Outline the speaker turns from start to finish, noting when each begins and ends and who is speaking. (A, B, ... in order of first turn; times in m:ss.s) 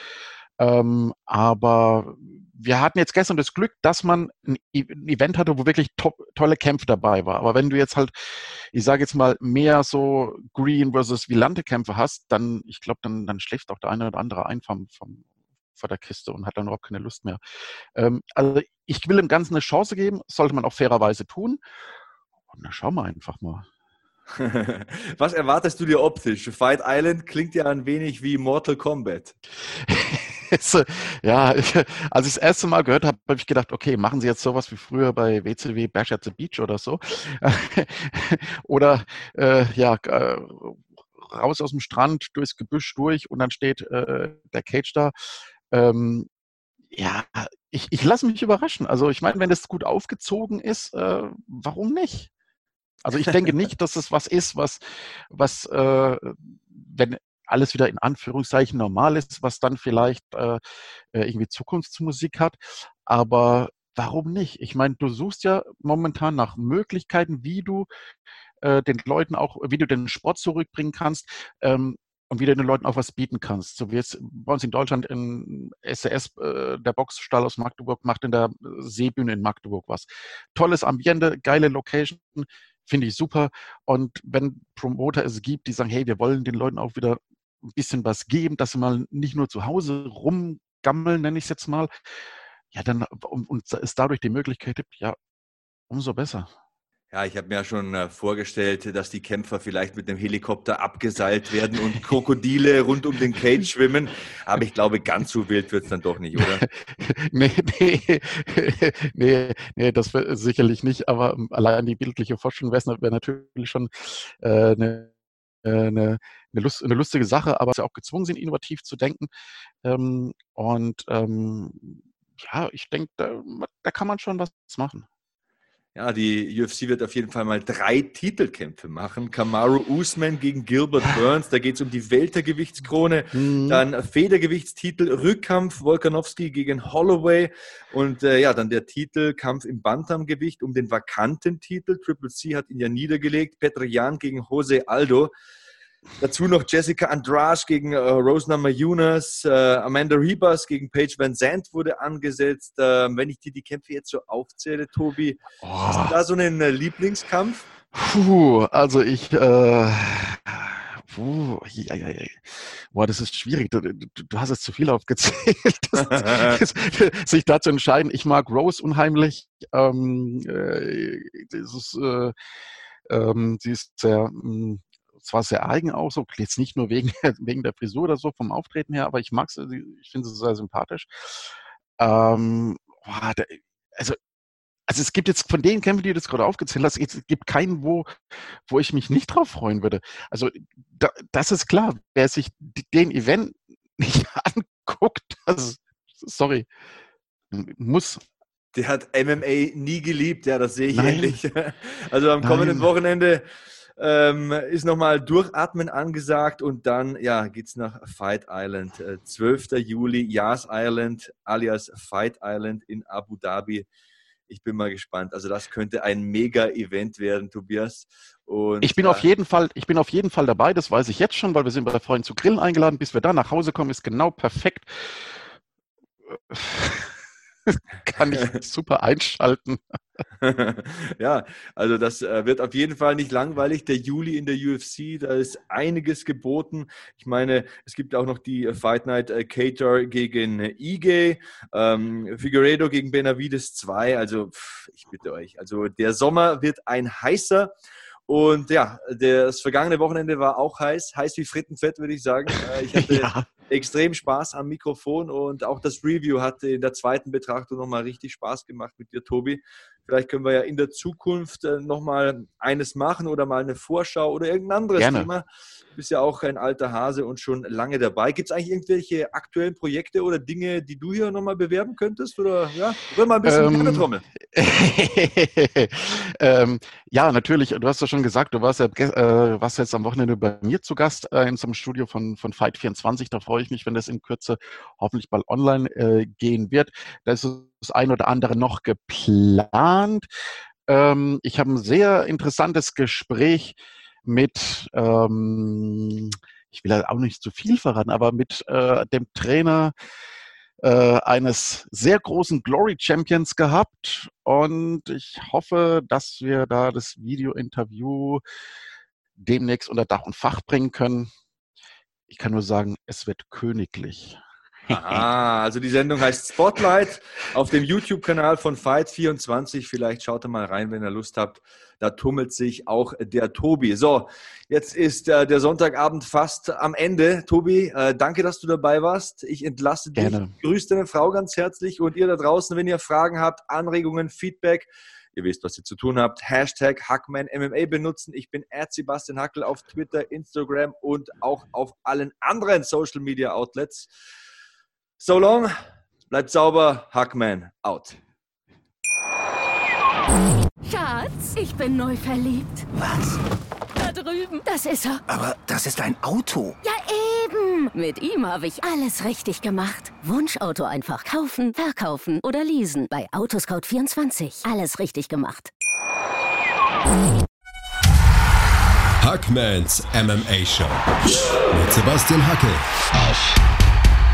0:00.6-0:15.2 A
0:15.8-0:17.4 A
0:18.0-0:21.6 A
0:22.5-0:23.7 A
0:24.4-0:29.4 B
0:29.7-0:45.1 A
0:45.7-0:46.3 A
0:46.9-0:52.3 A
0:53.0-1:00.6 A
1:01.1-1:07.9 A
1:08.6-1:31.9 A
1:32.7-1:35.2 A
1:35.9-1:36.5 A
1:37.1-1:46.6 B
1:46.4-1:55.1 A
1:55.6-1:59.3 A
1:59.8-2:05.1 A
2:06.0-2:25.3 B
2:13.3-2:13.8 A
2:26.2-2:37.7 B
2:35.6-2:36.2 A
2:37.9-2:52.3 A
2:46.0-2:46.6 B
2:53.1-3:04.2 A
3:04.9-3:08.1 A
3:08.7-3:16.7 A
3:17.5-3:18.2 A
3:18.8-3:23.4 B
3:20.9-3:21.4 A
3:22.4-3:22.9 A
3:24.0-3:33.9 B
3:34.5-3:39.3 B
3:38.8-3:45.4 A
3:46.3-3:49.8 A
3:50.4-4:07.7 B
4:08.3-4:34.2 B
4:12.9-4:13.5 A
4:25.0-4:25.3 A
4:33.4-4:50.3 A
4:50.9-4:59.9 A
5:00.8-5:08.4 A
5:09.4-5:11.3 A
5:12.3-5:15.2 A
5:14.9-5:44.1 B
5:30.2-5:30.5 A
5:45.2-5:45.8 B
5:46.3-5:48.2 B
5:50.8-5:52.9 C
5:52.9-5:53.4 D
5:54.0-5:55.2 C
5:55.3-5:56.8 D
5:56.8-6:05.7 C
6:09.2-6:11.0 E
6:11.7-6:13.5 E